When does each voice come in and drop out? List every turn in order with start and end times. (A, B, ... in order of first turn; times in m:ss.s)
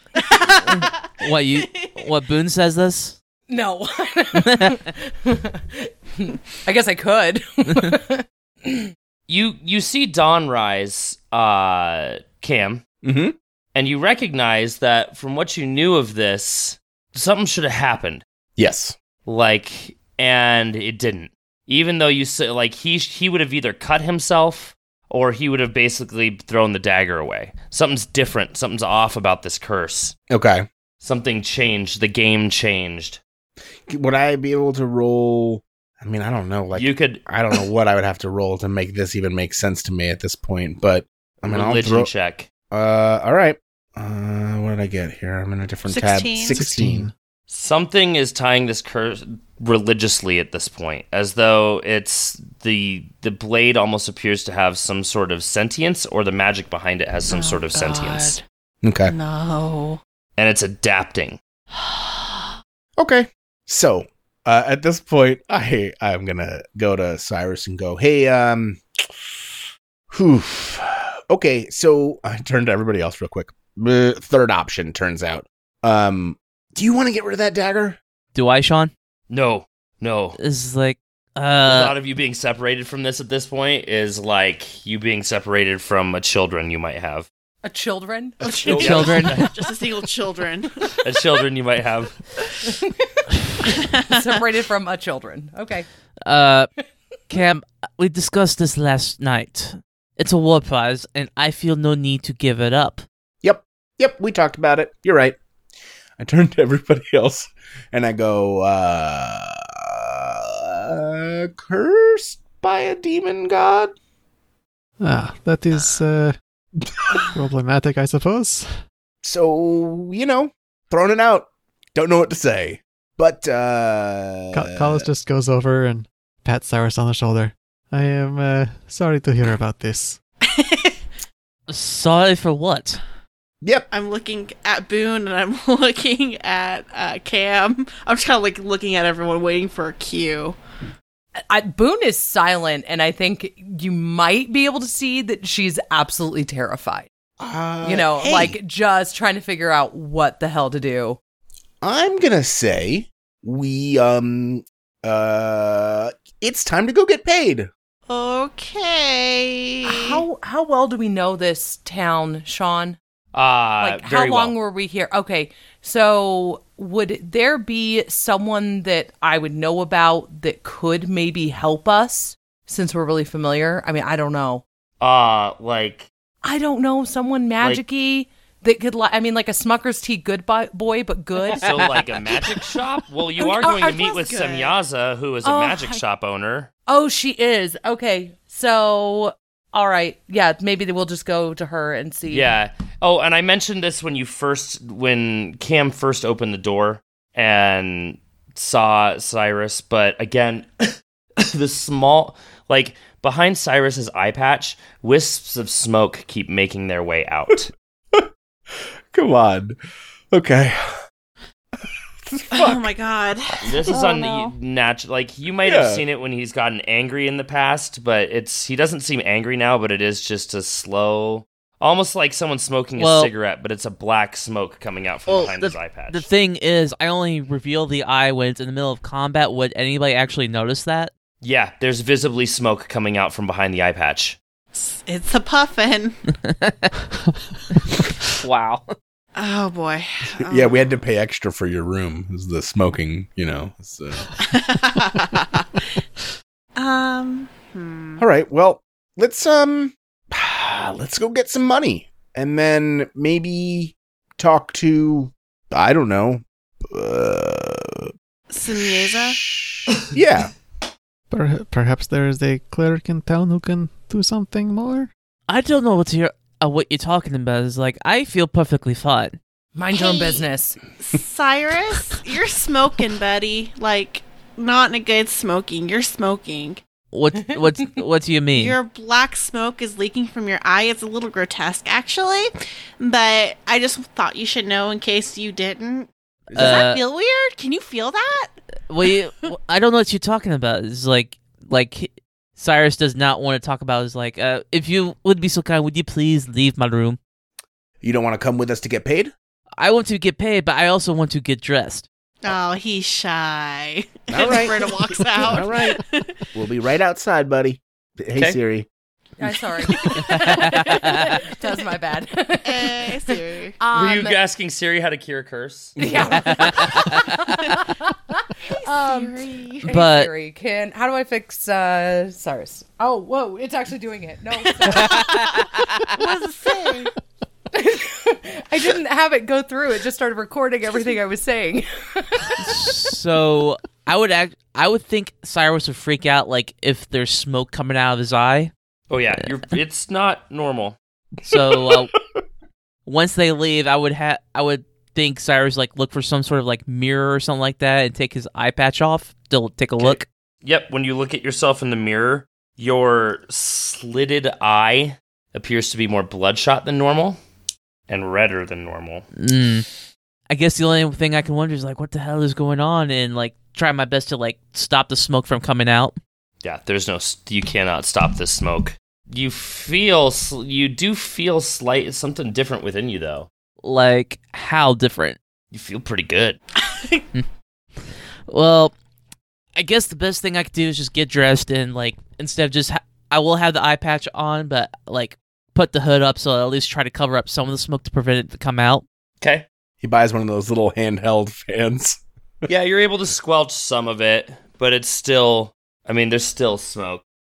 0:00.2-0:02.0 A
0:00.6-0:03.2 B
0:03.5-0:08.9 C
0:04.4-0:04.8 B
0:09.3-0:12.8 D
0:13.0-0:13.4 E
0:13.7-0:18.2 D
0:18.6-0:19.0 E
0:19.2-0:30.1 D
0:30.3-0:30.6 E
0:31.0-0:33.2 D
0:33.9-0:42.1 E
0:36.7-0:37.2 D
0:41.4-0:42.5 D
0:42.7-0:47.1 E
0:45.9-0:46.6 A
0:46.5-0:47.1 F
0:47.5-0:58.4 D
0:57.3-0:58.4 A
0:58.8-0:59.1 E
0:59.1-1:00.0 A
1:00.4-1:01.4 D
1:01.7-1:02.5 A
1:03.0-1:09.5 E
1:10.1-1:18.0 E
1:18.3-1:18.9 B
1:19.3-1:20.4 D
1:20.4-1:22.0 B
1:21.6-1:27.3 D
1:27.6-1:28.4 C
1:28.4-1:31.0 A
1:28.6-1:29.5 D
1:28.7-1:29.5 B
1:31.0-1:32.2 D
1:33.7-1:34.4 A
1:34.1-1:35.9 C
1:36.2-1:36.7 B
1:37.3-1:43.0 B
1:43.4-1:45.4 E
1:46.2-1:53.9 E
1:55.0-1:56.4 F
1:57.3-1:58.7 F
1:59.2-2:05.0 E
2:04.5-2:10.2 F
2:10.4-2:11.0 A
2:11.7-2:13.0 B
2:13.6-2:13.9 E
2:13.9-2:20.6 A
2:21.5-2:27.1 C
2:27.4-2:28.6 E
2:27.8-2:31.2 C
2:31.8-2:37.7 E
2:38.1-2:40.2 A
2:39.8-2:43.0 C
2:43.3-2:44.5 D
2:43.8-2:54.6 C
2:55.0-2:56.1 D
2:56.4-3:01.9 C
3:01.6-3:06.7 D
3:03.4-3:04.7 A
3:05.4-3:06.0 C
3:06.9-3:12.5 C
3:12.3-3:27.7 D
3:28.1-3:29.8 E
3:30.3-3:31.0 E
3:32.2-3:32.9 E
3:32.5-3:34.5 A
3:33.6-3:46.3 D
3:35.6-3:36.0 E
3:43.0-3:43.3 B
3:45.3-3:51.1 B
3:51.4-3:54.4 D
3:54.7-3:56.2 A
3:56.4-3:56.9 B
3:58.4-3:58.9 B
3:59.4-4:00.8 A
4:00.4-4:04.3 E
4:04.4-4:05.9 A
4:06.8-4:08.2 A
4:08.2-4:18.1 E
4:18.5-4:19.4 A
4:19.2-4:20.5 E
4:21.3-4:25.1 F
4:25.5-4:29.4 B
4:29.7-4:30.8 C
4:29.9-4:30.4 A
4:31.0-4:36.8 A
4:37.1-4:38.8 B
4:38.6-4:48.6 A
4:46.5-4:46.8 E
4:46.5-4:47.0 B
4:48.9-4:57.2 B
4:58.0-4:59.3 E
4:59.8-5:02.0 B
5:02.4-5:06.4 A
5:04.3-5:06.0 E
5:06.5-5:08.9 E
5:09.4-5:14.4 C
5:09.9-5:11.7 A
5:10.8-5:11.2 B
5:12.6-5:13.8 A
5:13.9-5:16.0 D
5:16.0-5:25.6 C
5:16.0-5:17.6 B
5:18.7-5:19.9 A
5:19.9-5:20.3 B
5:24.9-5:25.6 A
5:25.0-5:25.2 B
5:26.1-5:27.1 A
5:27.7-5:32.8 C
5:32.6-5:38.7 B
5:39.1-5:41.0 D
5:41.4-5:42.2 B
5:43.0-5:50.2 B
5:50.0-5:57.4 D
5:58.1-5:59.2 D
5:59.4-5:59.9 B
6:00.5-6:06.2 B
6:06.6-6:13.5 D
6:13.8-6:15.4 B
6:15.7-6:16.6 D
6:16.8-6:17.2 A
6:18.5-6:18.9 B
6:19.8-6:29.0 B
6:29.4-6:29.6 D
6:30.0-6:32.7 E
6:32.6-6:37.2 D